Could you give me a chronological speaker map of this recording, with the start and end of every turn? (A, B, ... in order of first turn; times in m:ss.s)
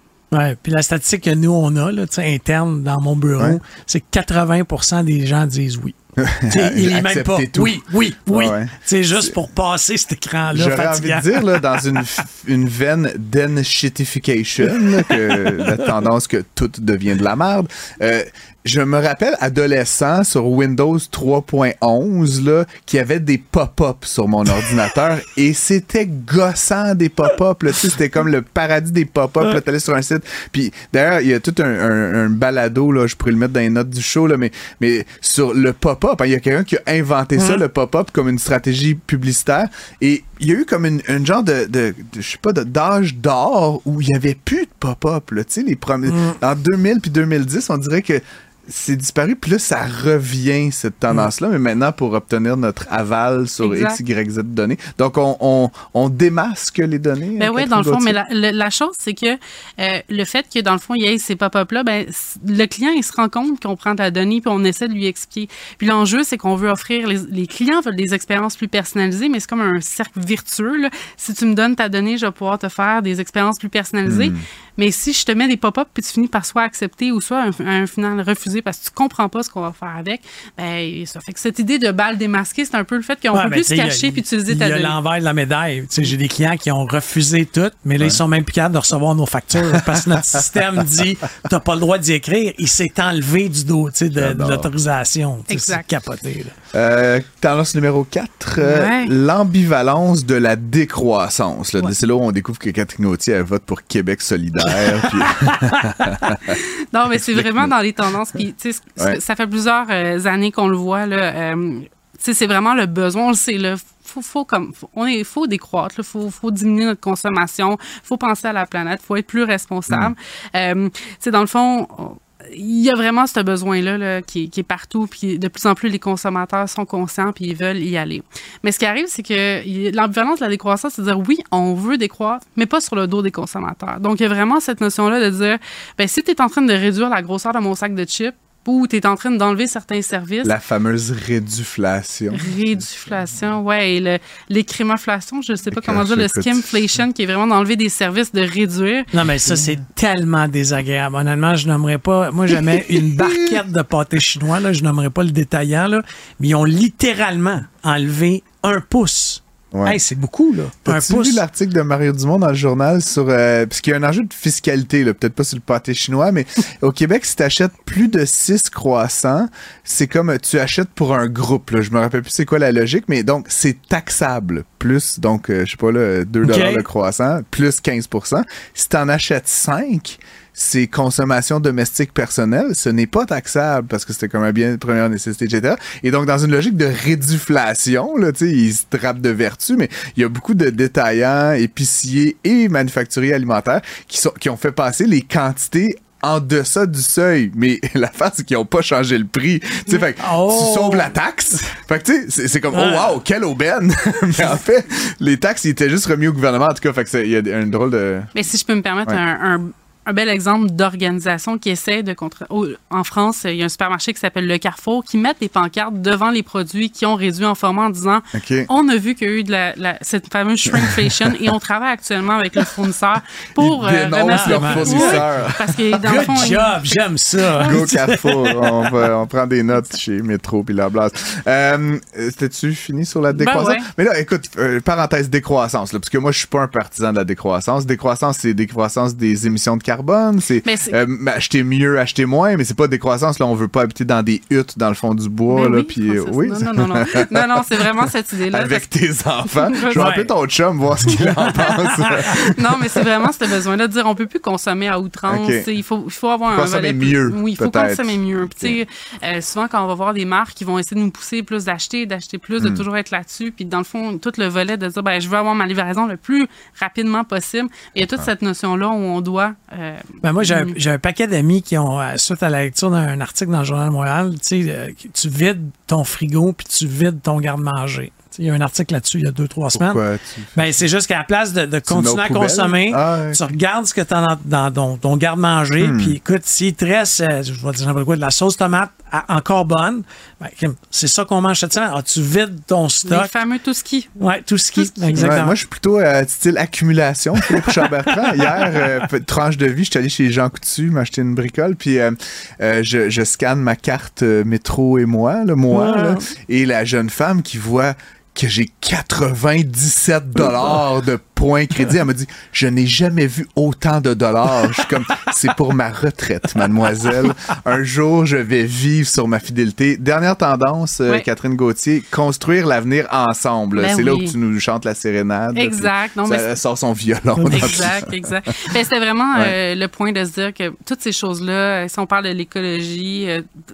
0:00.3-0:05.9 A
0:06.2-0:09.4 B
0:06.5-0:12.0 A
0:10.5-0:58.2 B
0:14.7-0:15.9 A
0:46.0-0:46.4 A
0:53.6-0:54.0 C
0:57.4-1:25.0 C
1:14.0-1:14.4 B
1:23.3-1:36.5 A
1:34.2-1:34.7 B
1:35.5-1:35.9 C
1:36.7-1:46.6 B
1:38.6-1:39.1 C
1:45.4-1:46.3 A
1:46.6-2:20.6 C
1:47.1-1:47.7 B
2:20.4-2:22.8 B
2:22.3-2:29.1 C
2:25.7-2:26.8 B
2:29.1-2:41.4 A
2:29.5-2:29.8 B
2:32.5-2:33.5 B
2:39.7-2:40.0 B
2:40.8-3:28.3 B
2:56.4-2:56.8 A
3:20.2-3:21.2 A
3:22.7-3:23.2 A
3:28.3-3:46.9 C
3:38.3-3:38.7 B
3:43.6-3:46.6 B
3:44.3-3:45.2 A
3:46.0-3:49.0 A
3:47.6-4:07.8 B
3:53.3-3:53.9 C
4:00.6-4:01.0 C
4:05.5-4:10.1 C
4:08.5-4:13.0 B
4:09.9-4:10.3 A
4:11.0-4:30.8 C
4:11.0-4:12.0 A
4:15.3-4:15.7 B
4:16.5-4:18.8 B
4:22.6-4:22.8 B
4:28.0-4:28.3 B
4:30.2-4:40.0 A
4:39.7-4:40.6 B
4:40.5-4:53.3 A
4:41.9-4:43.4 B
4:45.8-4:46.2 B
4:53.1-4:54.1 C
4:54.2-4:55.6 A
4:54.8-4:55.3 C
4:55.2-5:28.2 B
4:57.4-4:58.9 A
5:05.7-5:06.3 A
5:17.0-5:17.3 A
5:23.8-5:24.4 C
5:25.5-5:26.5 C
5:27.4-5:27.9 A
5:27.5-5:33.4 C